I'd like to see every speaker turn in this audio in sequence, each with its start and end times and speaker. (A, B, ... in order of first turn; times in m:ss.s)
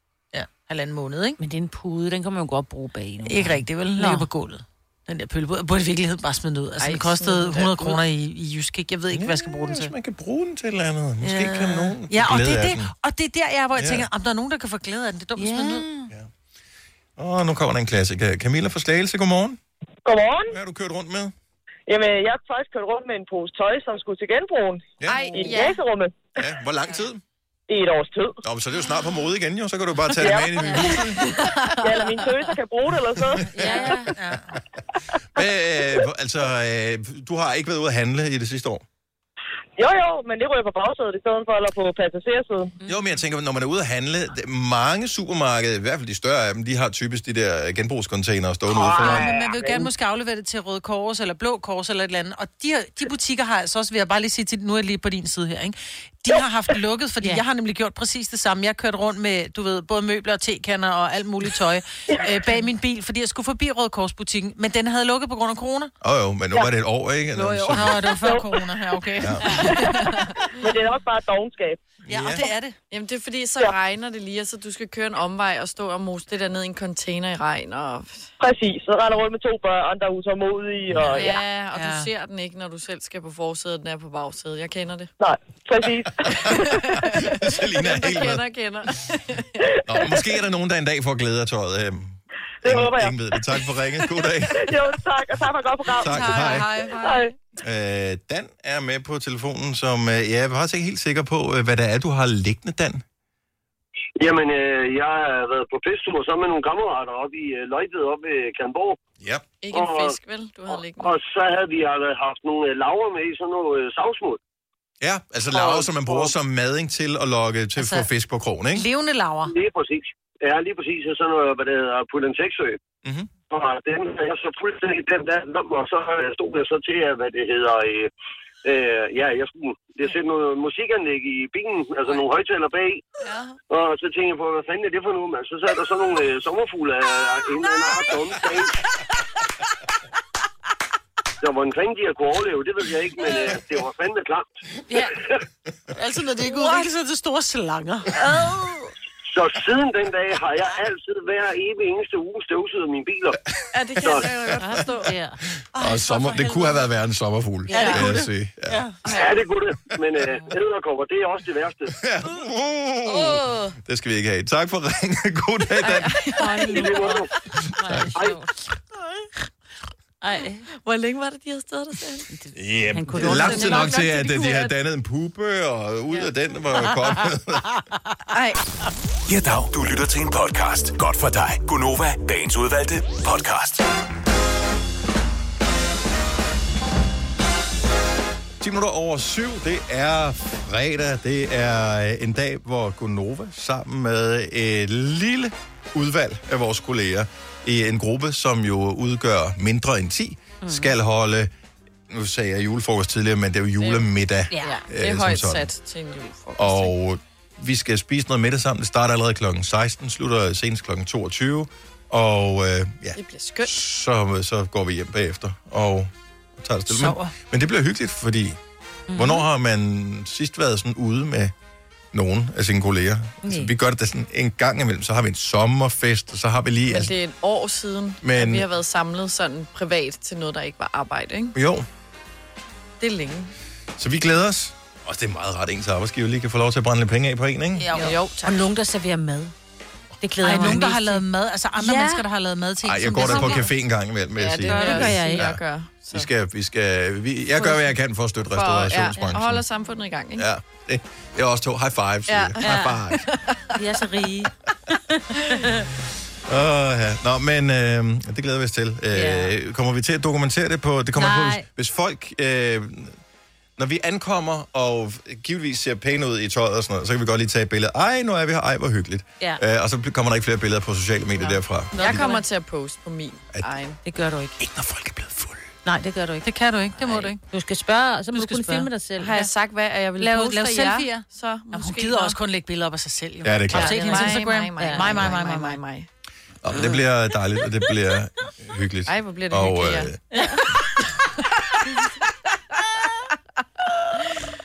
0:00.3-0:01.4 A
0:01.4-0:04.3 B
0:03.2-0:09.9 A
0:06.8-0:08.0 C
0:09.1-0:12.9 D
0:11.2-0:16.0 A
0:13.8-0:14.1 D
0:15.4-0:16.1 B
0:17.2-0:19.6 D
0:20.0-0:20.6 E
0:20.5-0:21.3 D
0:21.9-0:26.2 E
0:25.0-0:25.4 D
0:25.1-0:25.8 C
0:26.4-0:27.2 D
0:27.7-0:28.4 E
0:28.4-0:31.4 D
0:30.2-0:30.6 E
0:30.7-0:31.5 C
0:31.8-0:33.5 E
0:33.4-0:33.9 D
0:33.5-0:34.0 B
0:33.6-0:34.6 A
0:35.3-0:38.8 D
0:39.8-0:42.8 E
0:42.8-0:49.3 D
0:48.7-0:49.9 E
0:48.8-1:05.9 A
1:06.0-1:08.2 D
1:07.3-1:10.4 A
1:08.1-1:08.6 E
1:09.2-1:09.7 D
1:09.5-1:10.5 C
1:10.6-1:11.8 E
1:12.0-1:12.4 D
1:12.1-1:12.8 A
1:12.4-1:18.3 C
1:18.4-1:21.4 E
1:21.1-1:25.1 C
1:21.1-1:22.1 A
1:25.2-1:26.9 E
1:26.3-1:30.2 C
1:26.4-1:28.4 D
1:29.8-1:34.8 D
1:32.6-1:33.2 E
1:34.5-1:36.3 E
1:36.0-1:36.7 D
1:36.0-1:37.3 A
1:36.2-1:37.2 C
1:37.0-1:37.3 E
1:37.6-1:43.0 D
1:44.2-1:49.0 F
1:49.6-1:51.2 C
1:49.7-1:50.2 F
1:50.7-1:54.4 F
1:55.0-1:58.9 D
1:55.6-1:56.3 F
1:57.8-1:58.1 A
1:58.7-1:59.5 A
1:59.5-2:02.8 F
2:03.0-2:03.3 D
2:03.5-2:08.1 F
2:08.6-2:13.1 F
2:13.2-2:13.6 C
2:13.7-2:18.8 F
2:21.4-2:24.5 F
2:25.9-2:28.1 A
2:26.5-2:26.8 C
2:28.2-2:28.9 C
2:29.3-2:33.4 F
2:33.7-2:35.1 C
2:34.0-2:34.3 F
2:34.4-2:34.8 D
2:34.6-2:35.4 B
2:35.6-2:38.8 D
2:35.8-2:36.8 A
2:37.7-2:38.9 A
2:37.7-2:38.0 B
2:37.7-2:38.1 C
2:39.1-2:42.0 F
2:42.0-2:46.6 D
2:43.1-2:43.8 C
2:45.8-2:47.2 C
2:46.4-2:47.2 B
2:46.7-2:47.3 F
2:47.7-2:48.5 B
2:47.8-2:48.1 D
2:48.1-2:48.4 F
2:50.2-2:50.7 B
2:50.8-2:52.3 C
2:52.3-2:54.0 B
2:52.6-2:57.8 D
2:53.2-2:54.7 C
2:58.3-2:58.6 C
2:59.3-3:03.9 G
3:08.6-3:21.5 D
3:20.6-3:20.9 B
3:22.1-3:25.7 D
3:24.5-3:24.8 B
3:24.6-3:26.9 C
3:26.6-3:38.6 D
3:33.2-3:33.8 C
3:36.9-3:37.3 A
3:39.1-3:39.5 B
3:39.1-3:41.5 D
3:42.1-3:47.2 D
3:43.4-3:43.7 B
3:46.9-3:51.6 C
3:48.2-3:48.7 D
3:51.6-3:51.9 D
3:53.0-3:53.5 C
3:54.0-3:57.9 D
3:57.8-3:58.2 A
3:57.9-3:59.5 B
3:58.0-3:58.7 C
4:00.2-4:01.2 B
4:00.4-4:03.7 A
4:01.8-4:02.2 B
4:02.8-4:09.6 D
4:03.3-4:03.6 C
4:04.4-4:06.3 C
4:04.7-4:05.2 A
4:04.7-4:05.5 B
4:08.5-4:10.5 C
4:10.4-4:13.3 D
4:12.3-4:13.8 C
4:12.6-4:13.0 B
4:13.7-4:15.9 B
4:16.5-4:23.2 D
4:19.1-4:19.5 B
4:21.2-4:21.7 B
4:23.8-4:32.2 D
4:31.4-4:34.0 C
4:31.9-4:32.4 B
4:32.0-4:32.4 A
4:34.0-4:34.6 B
4:34.6-4:35.5 D
4:35.8-4:36.5 B
4:36.4-4:37.4 A
4:37.0-4:39.5 B
4:38.3-4:38.9 A
4:39.2-4:42.4 C
4:40.2-4:45.8 A
4:43.4-4:44.0 D
4:43.7-4:46.1 C
4:44.1-4:45.2 B
4:46.6-4:50.2 D
4:49.1-4:50.7 C
4:50.3-4:50.6 B